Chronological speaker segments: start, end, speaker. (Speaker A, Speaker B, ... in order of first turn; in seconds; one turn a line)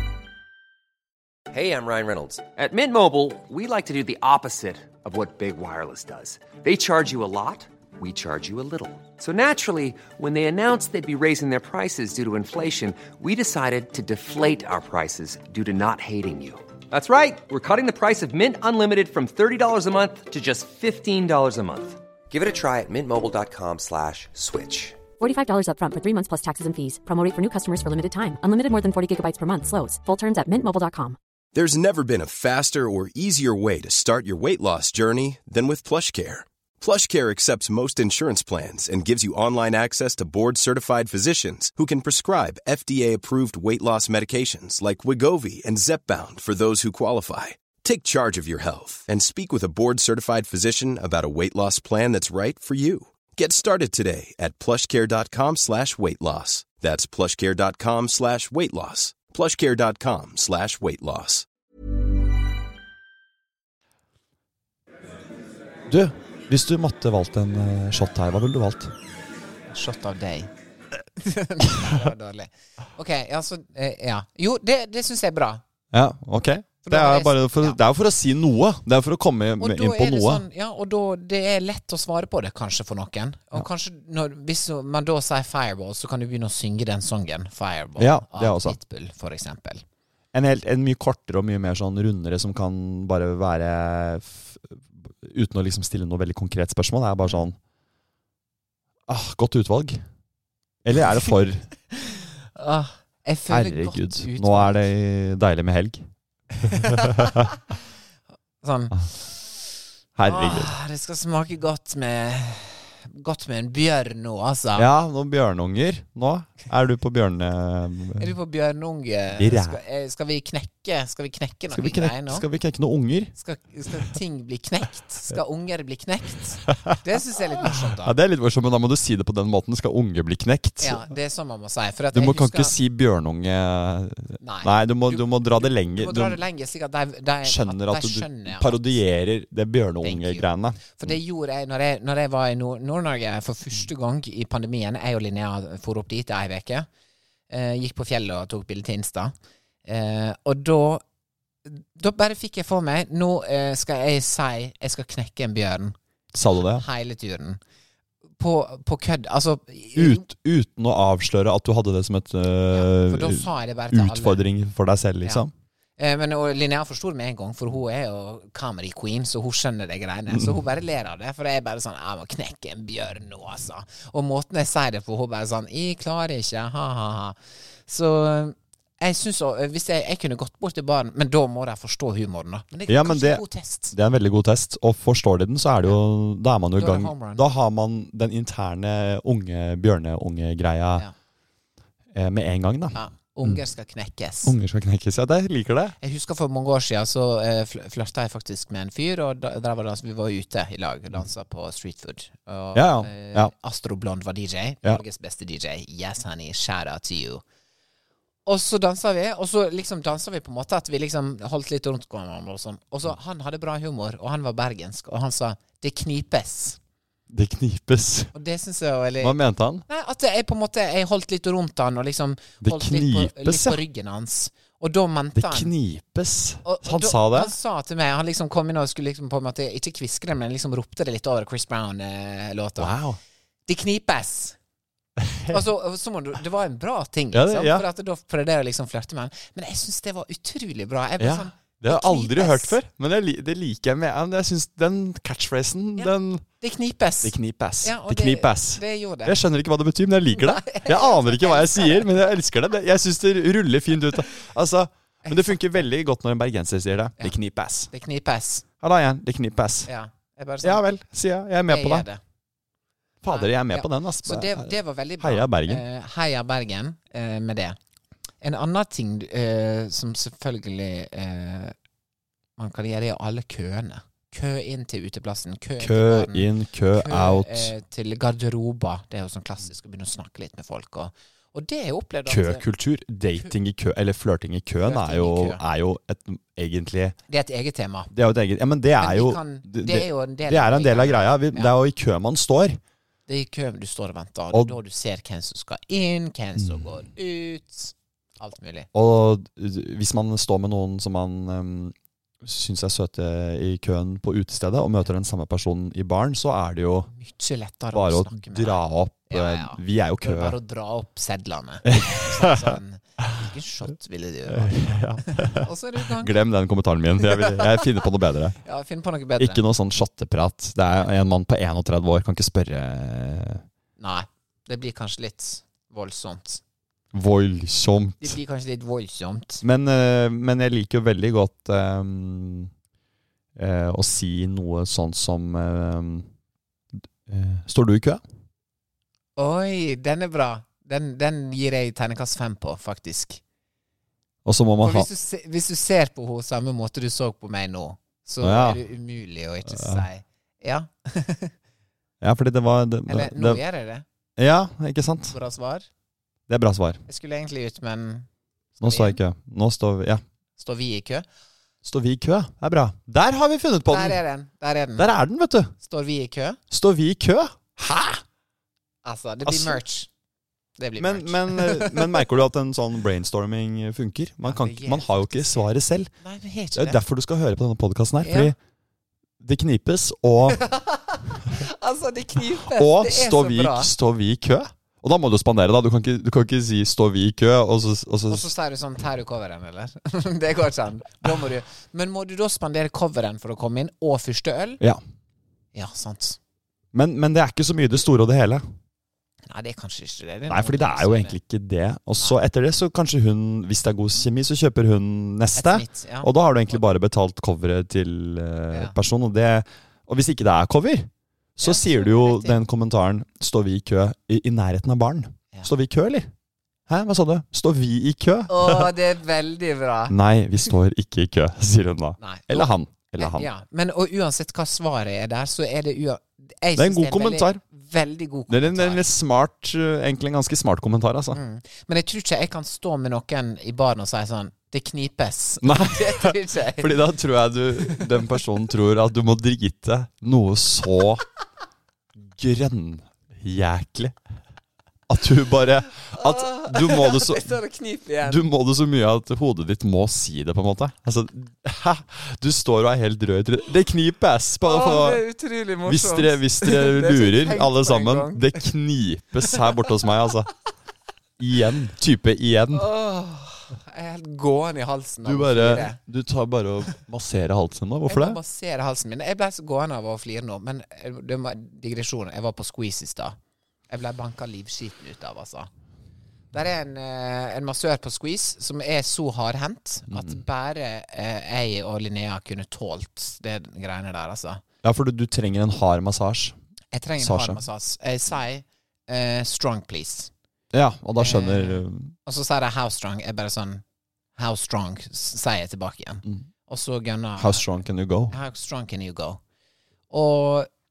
Speaker A: 1.5-25.0
Speaker B: 25.2-31.2
Speaker C: 31.5-61.5
Speaker D: 65.9-68.9
Speaker E: 69.7-70.5
Speaker E: 71.2-75.6
Speaker D: 75.9-80.4
Speaker E: 76.8-77.8
Speaker E: 79.6-89.8
Speaker D: 88.0-88.8
Speaker D: 90.3-97.6
Speaker D: 99.1-100.0
Speaker D: 100.8-101.7
Speaker E: 101.9-104.9
Speaker D: 103.5-106.0
Speaker E: 106.6-107.5
Speaker D: 106.7-107.5
Speaker E: 108.6-109.5
Speaker D: 110.2-110.7
Speaker E: 110.2-114.9
Speaker D: 114.8-118.3
Speaker E: 118.2-122.4
Speaker D: 119.3-119.8
Speaker D: 121.7-123.3
Speaker E: 123.3-128.1
Speaker D: 127.6-131.1
Speaker E: 130.8-132.7
Speaker D: 132.1-136.4
Speaker E: 134.4-139.0
Speaker D: 137.4-141.1
Speaker E: 140.0-146.9
Speaker E: 147.5-149.3
Speaker E: 149.8-151.0
Speaker E: 151.6-155.9
Speaker D: 156.3-156.8
Speaker E: 156.7-157.6
Speaker E: 158.4-160.2
Speaker D: 159.9-165.5
Speaker E: 162.7-164.4
Speaker E: 166.0-177.3
Speaker E: 177.9-183.9
Speaker D: 182.9-191.1
Speaker E: 186.8-187.4
Speaker D: 192.1-193.6
Speaker E: 192.9-194.5
Speaker D: 194.4-195.9
Speaker E: 196.0-207.4
Speaker D: 202.7-203.5
Speaker E: 208.4-216.8
Speaker D: 217.3-218.3
Speaker E: 218.3-225.7
Speaker D: 219.2-219.8
Speaker D: 222.6-223.8
Speaker D: 225.3-227.5
Speaker E: 226.6-233.0
Speaker D: 232.8-233.2
Speaker E: 233.7-234.6
Speaker D: 235.2-235.6
Speaker E: 235.5-242.8
Speaker D: 237.3-237.8
Speaker D: 241.2-246.4
Speaker E: 246.0-249.4
Speaker D: 247.2-257.9
Speaker E: 250.3-252.2
Speaker E: 255.2-255.6
Speaker E: 257.9-258.6
Speaker D: 258.8-259.9
Speaker E: 259.9-260.8
Speaker D: 260.6-262.1
Speaker E: 261.7-262.2
Speaker D: 263.2-265.8
Speaker E: 263.3-267.8
Speaker E: 268.4-271.7
Speaker E: 272.6-282.6
Speaker D: 275.8-277.7
Speaker D: 282.2-287.1
Speaker E: 284.8-285.6
Speaker E: 287.3-288.1
Speaker D: 288.1-292.8
Speaker E: 289.0-291.7
Speaker E: 293.3-298.9
Speaker D: 294.5-294.8
Speaker D: 296.6-296.9
Speaker D: 298.9-307.1
Speaker E: 307.1-316.4
Speaker D: 307.9-310.6
Speaker D: 311.9-313.3
Speaker D: 314.5-318.6
Speaker E: 317.2-318.1
Speaker E: 318.6-319.6
Speaker D: 319.4-323.6
Speaker E: 324.0-326.6
Speaker D: 327.1-328.4
Speaker E: 328.2-329.6
Speaker D: 329.6-332.7
Speaker D: 333.6-336.3
Speaker D: 336.9-338.2
Speaker E: 339.4-343.4
Speaker D: 344.4-345.1
Speaker E: 344.8-351.5
Speaker D: 348.4-348.8
Speaker D: 349.7-350.1
Speaker D: 352.2-353.6
Speaker E: 353.1-354.0
Speaker D: 354.4-355.3
Speaker E: 355.3-355.9
Speaker D: 356.5-357.0
Speaker E: 357.1-358.3
Speaker D: 358.8-360.2
Speaker E: 358.8-359.2
Speaker E: 360.6-361.2
Speaker D: 361.8-364.2
Speaker E: 363.9-365.1
Speaker D: 365.0-365.8
Speaker E: 365.8-366.6
Speaker D: 366.7-368.2
Speaker E: 369.0-370.1
Speaker D: 369.4-369.8
Speaker E: 370.8-372.2
Speaker D: 371.0-376.1
Speaker E: 374.4-377.0
Speaker D: 376.7-378.6
Speaker E: 378.2-378.5
Speaker D: 379.4-380.6
Speaker E: 380.5-383.9
Speaker D: 382.7-388.5
Speaker E: 388.3-394.8
Speaker E: 395.7-396.4
Speaker D: 396.9-398.6
Speaker E: 399.5-401.4
Speaker D: 400.5-416.3
Speaker E: 405.5-406.8
Speaker E: 411.6-412.6
Speaker D: 416.9-418.9
Speaker E: 418.5-420.1
Speaker D: 420.1-423.5
Speaker E: 422.2-429.1
Speaker D: 426.8-427.6
Speaker D: 428.5-431.4
Speaker E: 431.3-437.1
Speaker D: 435.6-441.2
Speaker E: 437.8-438.3
Speaker D: 442.2-444.2
Speaker D: 445.1-447.5
Speaker E: 446.1-448.4
Speaker D: 448.2-455.2
Speaker E: 454.6-458.6
Speaker D: 455.8-460.5
Speaker D: 461.4-462.9
Speaker E: 462.7-466.0
Speaker D: 465.2-468.4
Speaker E: 468.1-473.4
Speaker E: 473.9-475.7
Speaker E: 476.5-484.6
Speaker D: 480.1-480.4
Speaker D: 484.8-486.6
Speaker E: 486.9-490.3
Speaker D: 487.2-487.6
Speaker D: 490.7-492.1
Speaker E: 491.2-493.8
Speaker E: 494.4-497.7
Speaker D: 497.4-498.3
Speaker E: 498.3-499.4
Speaker E: 500.1-500.7